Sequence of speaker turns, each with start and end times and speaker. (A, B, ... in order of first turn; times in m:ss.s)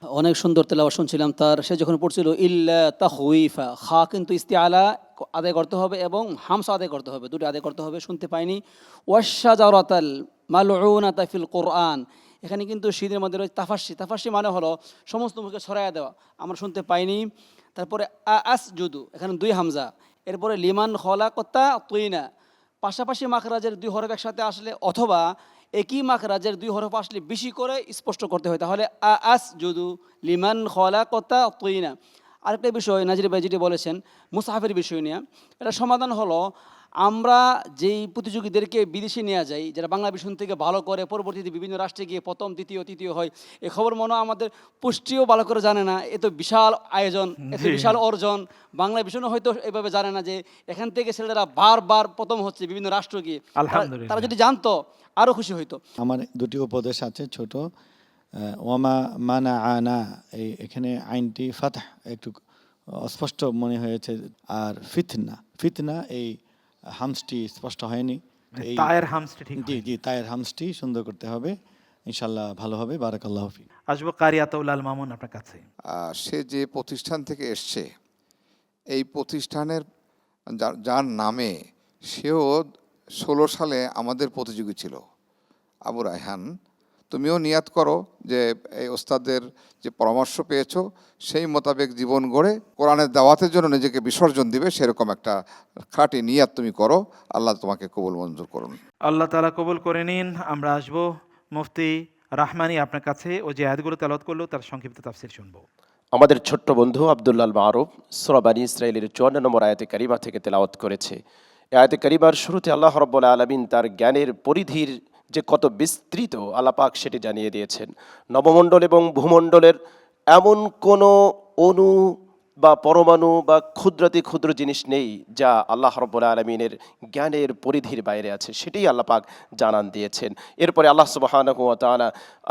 0:00.2-0:22.2 A
0:22.8-0:31.9 A
0:32.4-0:36.4 A
0:37.0-0:55.8 A
0:47.4-0:48.0 B
0:53.6-0:54.3 B
0:56.0-0:57.6 C
0:58.6-1:02.3 C
1:03.0-1:06.3 C
1:07.0-1:08.9 C
1:08.5-1:09.8 B
1:09.6-1:11.5 C
1:12.1-1:13.6 C
1:13.9-1:15.6 B
1:16.1-1:17.9 D
1:18.9-1:19.8 D
1:20.6-1:21.5 D
1:22.1-1:22.5 D
1:23.2-1:25.0 D
1:25.9-1:26.4 D
1:27.1-1:35.3 D
1:35.9-1:38.8 D
1:39.0-1:45.6 B
1:46.2-1:51.2 E
1:51.8-1:59.8 E
2:00.3-2:01.9 E
2:02.6-2:12.1 E